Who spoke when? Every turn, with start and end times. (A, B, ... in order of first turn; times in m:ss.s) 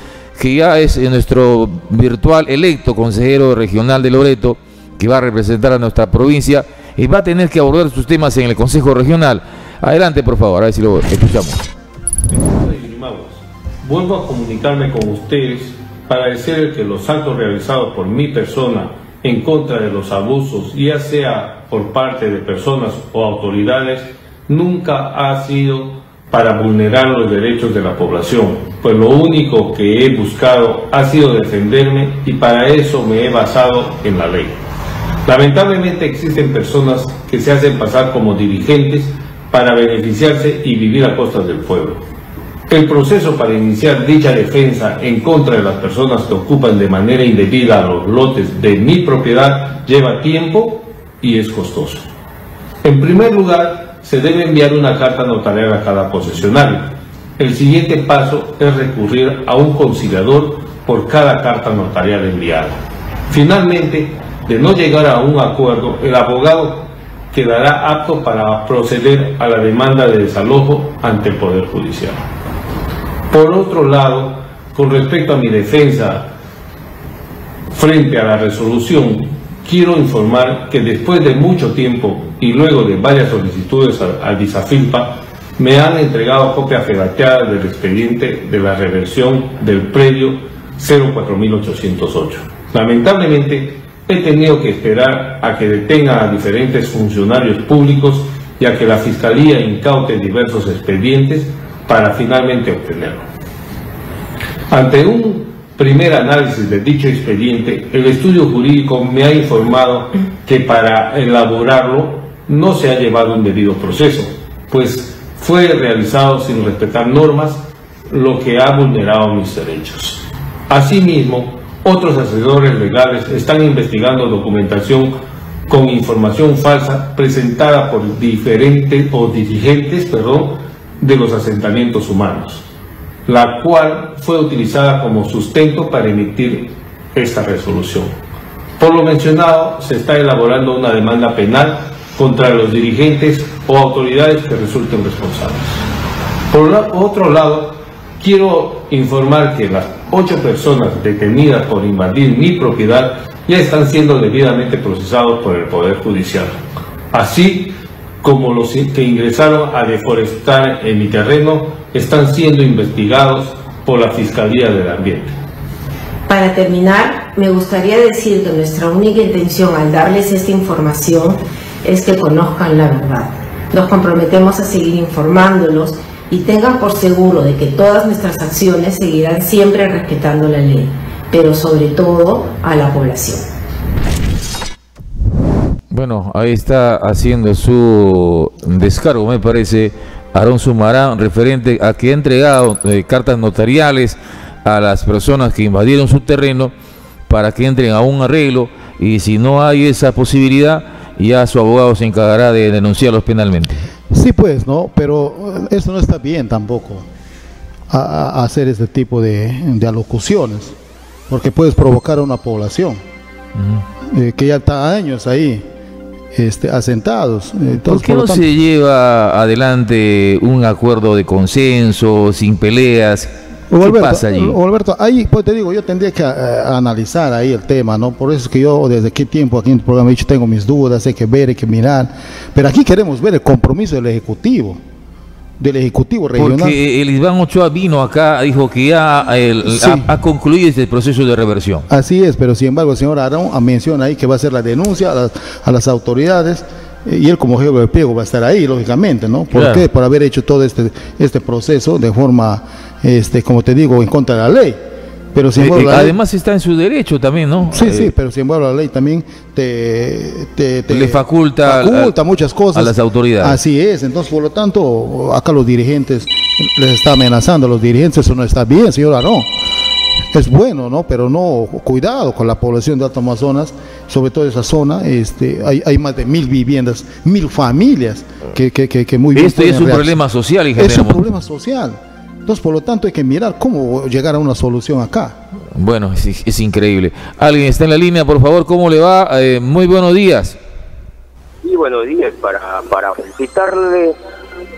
0:00.4-0:11.6 A
0:12.3-0:34.6 B
0:35.3-0:42.0 B
0:42.7-0:52.1 B
0:52.8-1:12.2 B
1:13.3-1:16.3 B
1:17.7-1:43.2 B
1:44.7-2:05.2 B
2:05.7-2:12.6 B
2:13.3-2:18.2 B
2:18.8-2:25.8 B
2:26.5-2:36.6 B
2:37.1-2:45.4 B
2:46.3-3:03.4 C
3:05.9-3:16.7 A
3:17.3-3:23.8 A
3:24.1-3:27.1 D
3:27.9-3:30.8 D
3:31.3-3:33.0 D
3:33.6-3:33.8 A
3:34.0-3:35.7 D
3:36.3-3:38.5 D
3:37.9-3:44.6 A
3:43.7-3:54.8 D
3:55.6-3:56.8 D
3:56.4-4:01.9 A
3:59.6-4:00.1 D
4:01.9-4:16.2 D
4:09.5-4:09.8 A
4:15.6-4:18.1 A
4:17.7-4:29.5 D
4:20.9-4:22.2 A
4:22.7-4:23.6 A
4:30.3-4:40.2 D
4:39.3-4:41.2 A
4:40.8-4:45.4 D
4:45.8-4:50.6 A
4:51.6-4:54.2 E